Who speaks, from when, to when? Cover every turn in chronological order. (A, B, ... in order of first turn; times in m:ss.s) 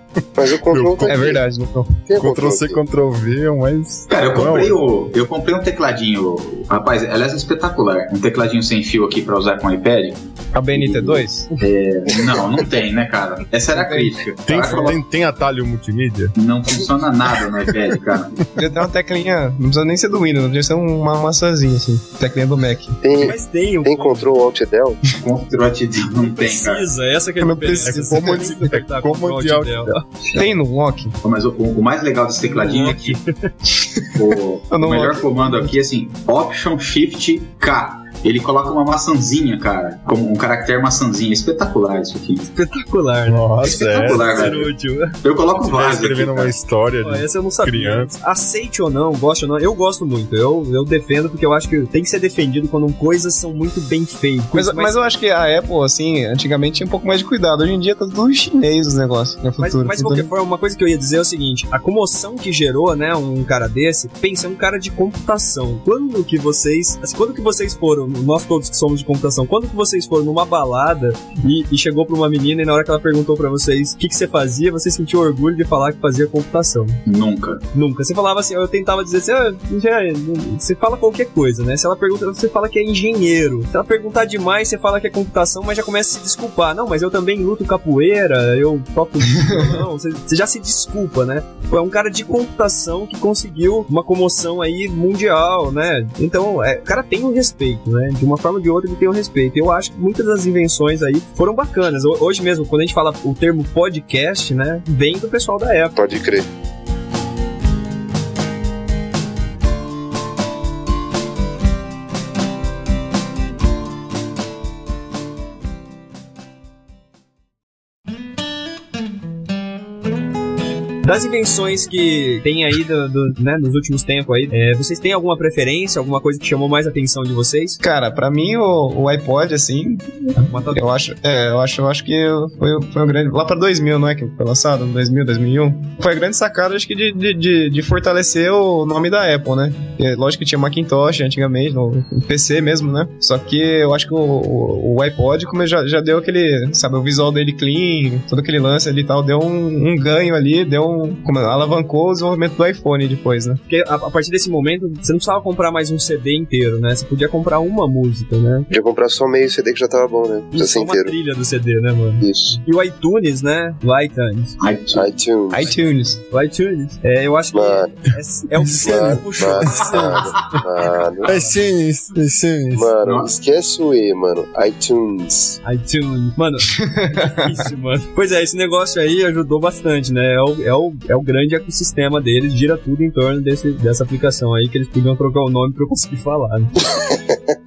0:00.2-0:01.3 A
0:00.4-0:01.4 B
0:01.0-0:02.0 C
0:02.1-0:02.8 B
0:02.2-0:04.8 A
0:04.1-0:15.0 D
0:10.5-0:11.6 C
0:13.7-0:14.8 C
0:14.5-0:16.3 A
0:16.4-0:18.4 D
0:18.6-0:23.0 C
0:23.0-0:25.0 B
0:23.2-0:24.3 E
0:25.1-0:26.9 D
0:26.2-0:30.0 E
0:27.4-0:28.6 C
0:27.8-0:29.9 A
0:30.3-0:31.2 C
0:31.2-0:33.2 D
0:32.6-0:33.5 E
0:33.8-0:34.1 C
0:34.1-0:42.5 D
0:34.7-0:35.7 C
0:42.5-0:43.5 E
0:43.3-0:44.6 A
0:43.6-0:44.7 D
0:44.1-0:45.2 E
0:45.2-0:46.6 D
0:45.6-0:48.1 A
0:47.0-0:54.9 E
0:54.5-1:00.3 C
0:59.6-1:17.0 E
1:17.0-1:17.6 D
1:17.7-1:46.0 E
1:46.0-1:46.5 B
2:01.0-2:07.8 E
2:07.8-2:33.6 C
2:10.4-2:10.8 E
2:33.7-2:38.7 E
2:38.7-2:41.1 B
2:40.5-2:44.6 E
2:42.2-2:42.6 B
2:44.6-2:45.1 D
2:44.9-2:45.7 B
2:45.5-2:46.2 C
2:45.7-2:50.1 E
2:47.5-2:48.0 B
2:48.8-2:51.3 B
2:49.7-2:50.6 A
2:51.2-2:52.9 A
2:52.8-2:55.6 B
2:53.0-2:53.3 D
2:55.6-3:06.9 E
2:56.8-2:57.4 C